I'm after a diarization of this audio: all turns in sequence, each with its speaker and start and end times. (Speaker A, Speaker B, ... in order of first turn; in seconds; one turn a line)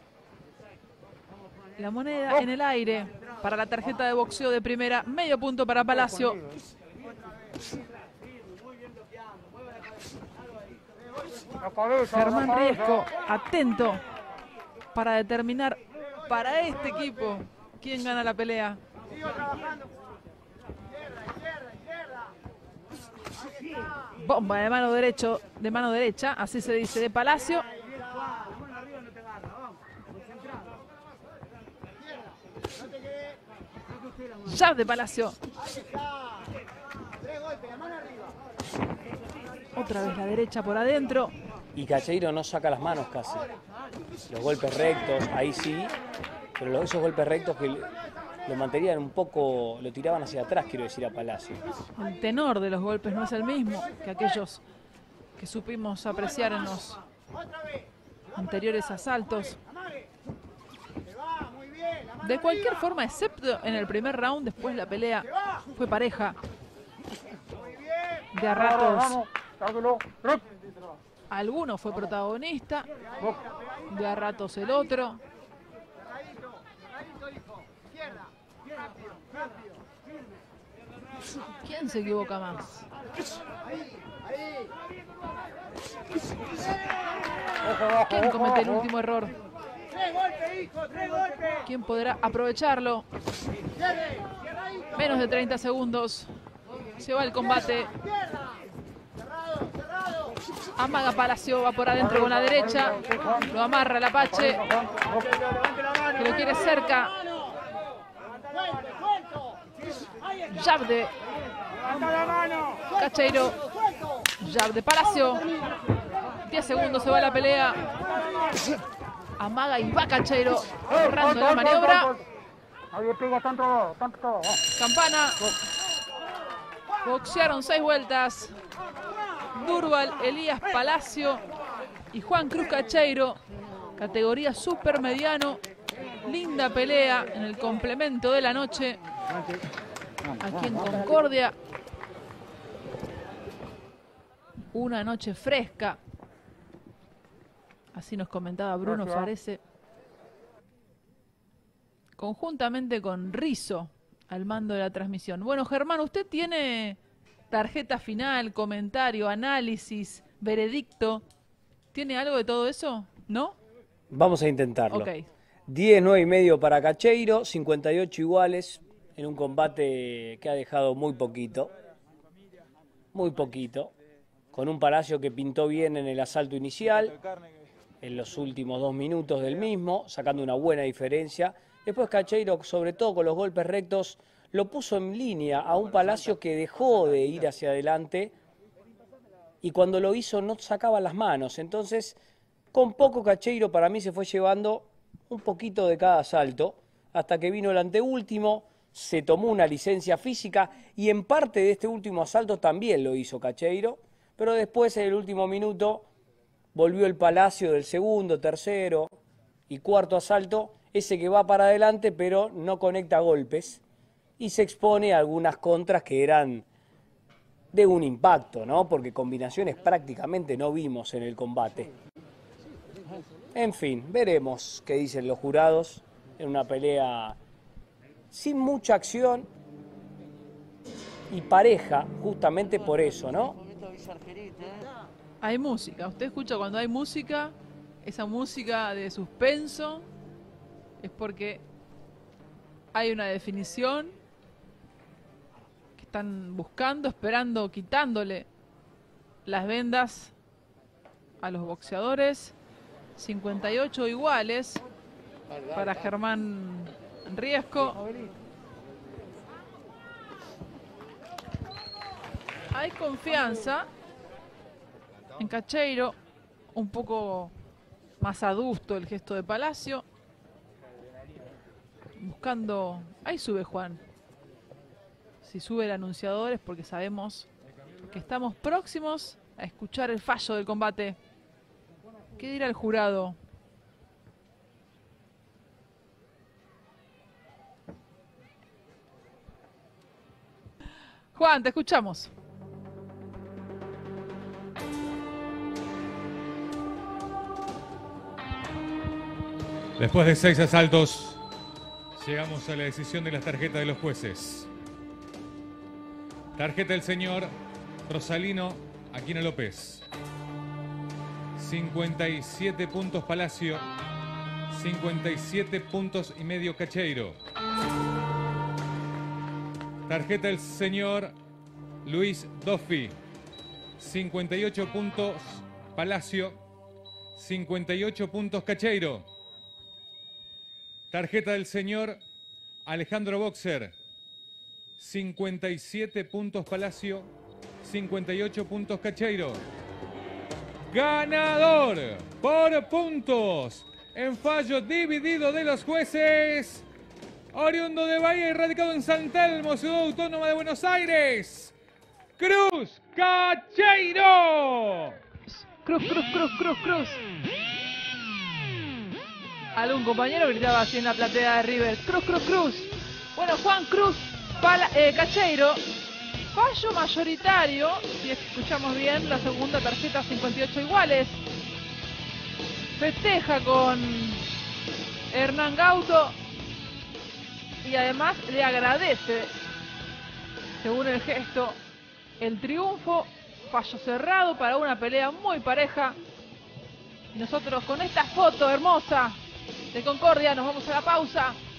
Speaker A: 1.8-6.4
Speaker B: 5.8-6.6
Speaker B: 11.6-13.1
Speaker A: 12.1-14.0
Speaker A: 14.9-18.8
Speaker A: 24.1-27.8
Speaker A: 34.4-35.4
Speaker A: 39.7-41.3
Speaker C: 41.7-43.6
Speaker C: 44.3-46.0
Speaker C: 46.6-51.6
Speaker A: 52.0-54.6
Speaker A: 55.4-57.0
Speaker A: 58.3-59.6
Speaker A: 62.2-66.4
Speaker A: 68.3-69.2
Speaker B: 68.4-70.5
Speaker A: 71.3-72.9
Speaker A: 73.9-75.2
Speaker A: 81.6-82.9
Speaker B: 87.6-88.9
Speaker A: 88.0-89.3
Speaker A: 91.7-93.0
Speaker A: 94.9-96.3
Speaker A: 97.0-97.9
Speaker A: 100.8-104.6
Speaker B: 102.0-103.6
Speaker B: 104.2-105.3
Speaker A: 106.1-107.2
Speaker A: 110.5-111.1
Speaker A: 112.9-113.6
Speaker A: 114.4-115.5
Speaker A: 116.4-118.0
Speaker A: 119.4-122.1
Speaker B: 120.9-122.2
Speaker B: 122.9-124.6
Speaker A: 124.8-125.4
Speaker A: 127.0-128.6
Speaker A: 129.5-131.5
Speaker A: 132.1-133.4
Speaker A: 134.0-135.6
Speaker A: 136.2-139.0
Speaker A: 140.4-141.6
Speaker A: 144.7-146.0
Speaker A: 147.9-149.6
Speaker B: 148.8-149.3
Speaker A: 152.2-157.0
Speaker A: 157.5-161.2
Speaker A: 161.9-163.6
Speaker C: 164.1-165.1
Speaker A: 164.9-165.2
Speaker C: 165.7-171.7
Speaker C: 173.1-173.9
Speaker C: 174.5-177.2
Speaker C: 178.0-188.3
Speaker C: 189.6-192.2
Speaker C: 192.7-206.1
Speaker C: 206.7-209.2
Speaker C: 209.7-213.8
Speaker C: 214.4-216.7
Speaker C: 217.7-221.9
Speaker C: 223.5-227.4
Speaker C: 228.3-229.5
Speaker C: 231.3-233.6
Speaker A: 235.4-240.1
Speaker A: 241.0-241.6
Speaker A: 242.9-244.2
Speaker A: 246.0-248.5
Speaker A: 249.4-250.3
Speaker A: 251.4-252.5
Speaker A: 253.2-254.8
Speaker A: 255.7-258.3
Speaker A: 262.7-263.9
Speaker A: 265.4-266.1
Speaker A: 266.7-267.5
Speaker A: 268.2-270.0
Speaker A: 272.2-274.0
Speaker A: 275.4-277.5
Speaker A: 278.1-281.2
Speaker A: 282.4-283.4
Speaker A: 291.3-292.3
Speaker D: 300.0-301.4
Speaker D: 302.1-304.7
Speaker D: 306.6-307.5
Speaker D: 308.1-310.0
Speaker D: 311.6-313.8
Speaker D: 314.7-317.4
Speaker D: 320.1-321.3
Speaker D: 322.0-323.2
Speaker D: 324.0-326.6
Speaker D: 327.4-329.3
Speaker D: 331.1-332.2
Speaker D: 332.9-333.9
Speaker D: 335.0-337.3
Speaker D: 337.8-339.6
Speaker D: 340.9-346.9
Speaker D: 347.5-351.7
Speaker D: 352.4-355.2
Speaker A: 355.5-357.2
Speaker A: 359.7-365.8
Speaker A: 366.5-371.4
Speaker A: 373.0-374.5
Speaker A: 375.3-376.4
Speaker A: 377.8-379.6
Speaker A: 380.8-381.8
Speaker A: 382.4-386.2
Speaker A: 387.3-389.4
Speaker A: 389.9-391.6